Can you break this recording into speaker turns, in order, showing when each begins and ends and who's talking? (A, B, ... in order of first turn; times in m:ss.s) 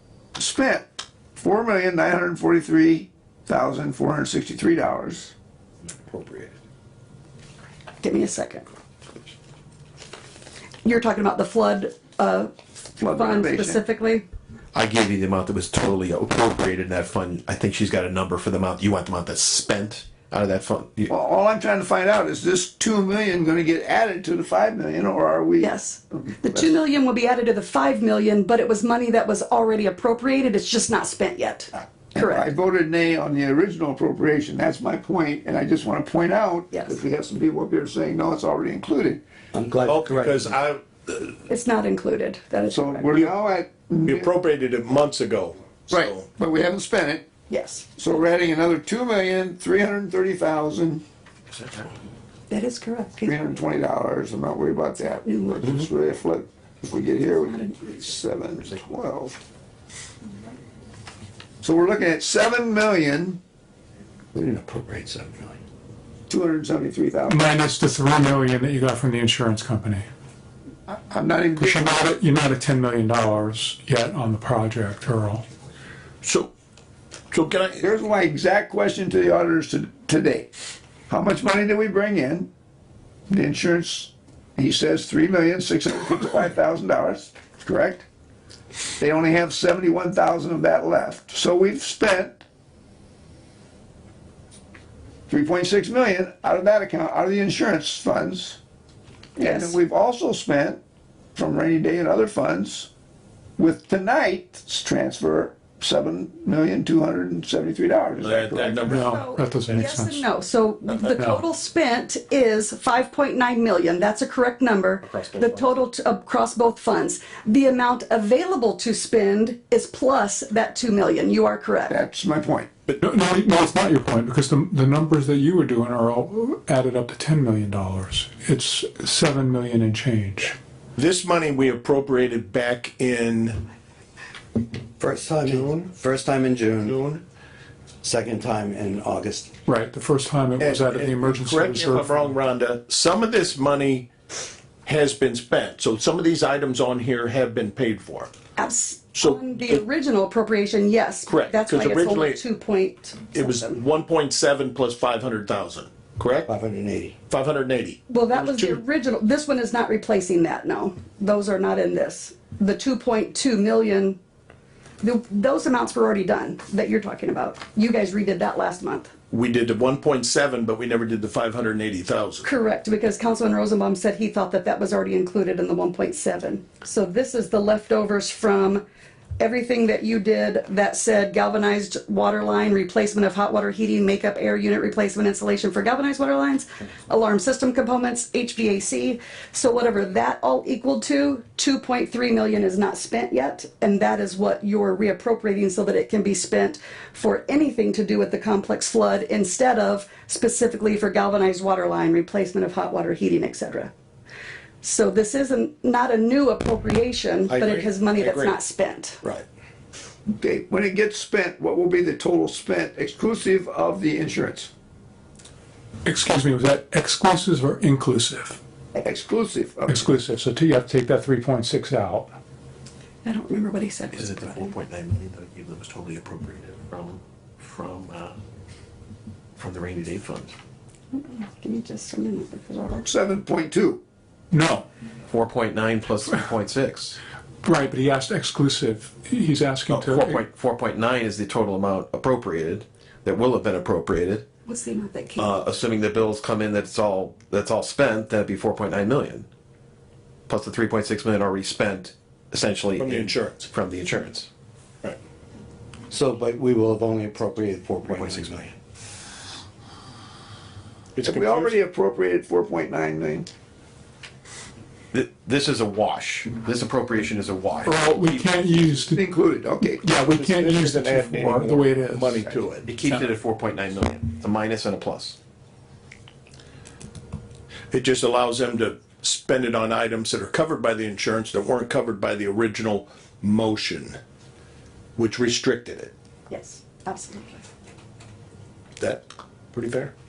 0:00.4-0:05.3 A
0:06.1-0:06.5 B
0:08.0-0:08.6 C
0:10.8-0:14.2 C
0:13.0-0:13.8 A
0:14.7-0:21.1 B
0:21.1-0:26.7 A
0:25.6-0:32.5 C
0:32.1-0:39.2 A
0:36.7-0:37.0 C
0:39.5-0:40.5 D
0:39.8-0:41.4 E
0:41.5-0:43.1 C
0:42.7-0:44.3 A
0:44.0-0:46.2 E
0:45.9-0:47.3 A
0:47.5-0:47.9 C
0:48.0-0:51.0 A
0:52.5-0:53.5 C
0:53.2-0:59.4 A
0:55.2-0:55.7 C
0:57.5-0:57.9 C
1:01.6-1:03.4 A
1:04.3-1:05.6 D
1:06.3-1:07.4 A
1:07.3-1:10.0 F
1:10.9-1:11.9 A
1:11.6-1:15.4 F
1:16.2-1:16.5 E
1:17.3-1:17.8 E
1:17.8-1:20.5 A
1:21.1-1:22.5 A
1:23.3-1:28.0 A
1:29.0-1:32.4 A
1:35.3-1:38.6 A
1:39.4-1:40.8 A
1:39.4-1:39.7 C
1:41.3-1:42.9 A
1:43.6-1:49.0 A
1:48.2-1:49.1 E
1:48.9-1:50.2 F
1:48.9-2:02.0 C
1:51.2-1:51.4 F
1:55.0-1:55.8 B
2:01.9-2:02.7 A
2:03.0-2:10.6 F
2:11.0-2:13.6 E
2:15.0-2:17.0 D
2:16.8-2:17.2 E
2:18.0-2:19.5 D
2:19.7-2:22.2 F
2:20.6-2:24.1 E
2:24.8-2:28.3 E
2:28.6-2:33.8 C
2:29.2-2:29.8 E
2:31.3-2:32.4 E
2:33.3-2:36.5 E
2:36.5-2:37.1 D
2:37.3-2:38.8 E
2:38.1-2:44.2 C
2:45.0-2:49.1 C
2:49.3-2:52.5 E
2:52.4-2:58.8 C
2:59.4-3:23.9 C
3:24.8-3:29.2 C
3:27.5-3:28.6 B
3:30.3-3:34.7 A
3:36.0-3:38.6 F
3:39.0-3:40.1 A
3:39.9-3:42.3 F
3:43.2-3:44.7 C
3:44.1-3:48.4 B
3:49.6-3:50.5 B
3:51.1-3:53.0 C
3:53.0-3:54.0 A
3:54.5-3:54.8 F
3:55.3-3:57.2 B
3:57.6-4:00.4 F
3:59.9-4:04.4 B
4:04.6-4:05.6 C
4:05.4-4:09.5 B
4:10.5-4:14.5 B
4:13.0-4:13.7 E
4:16.1-4:18.7 D
4:18.0-4:18.7 B
4:21.2-4:21.8 E
4:21.2-4:23.5 A
4:25.1-4:28.5 B
4:27.8-4:29.3 F
4:29.0-4:30.0 A
4:30.0-4:32.5 F
4:30.2-4:32.9 E
4:32.8-4:35.4 B
4:37.9-4:44.2 E
4:45.2-4:46.1 E
4:46.5-4:47.6 C
4:49.7-4:50.1 E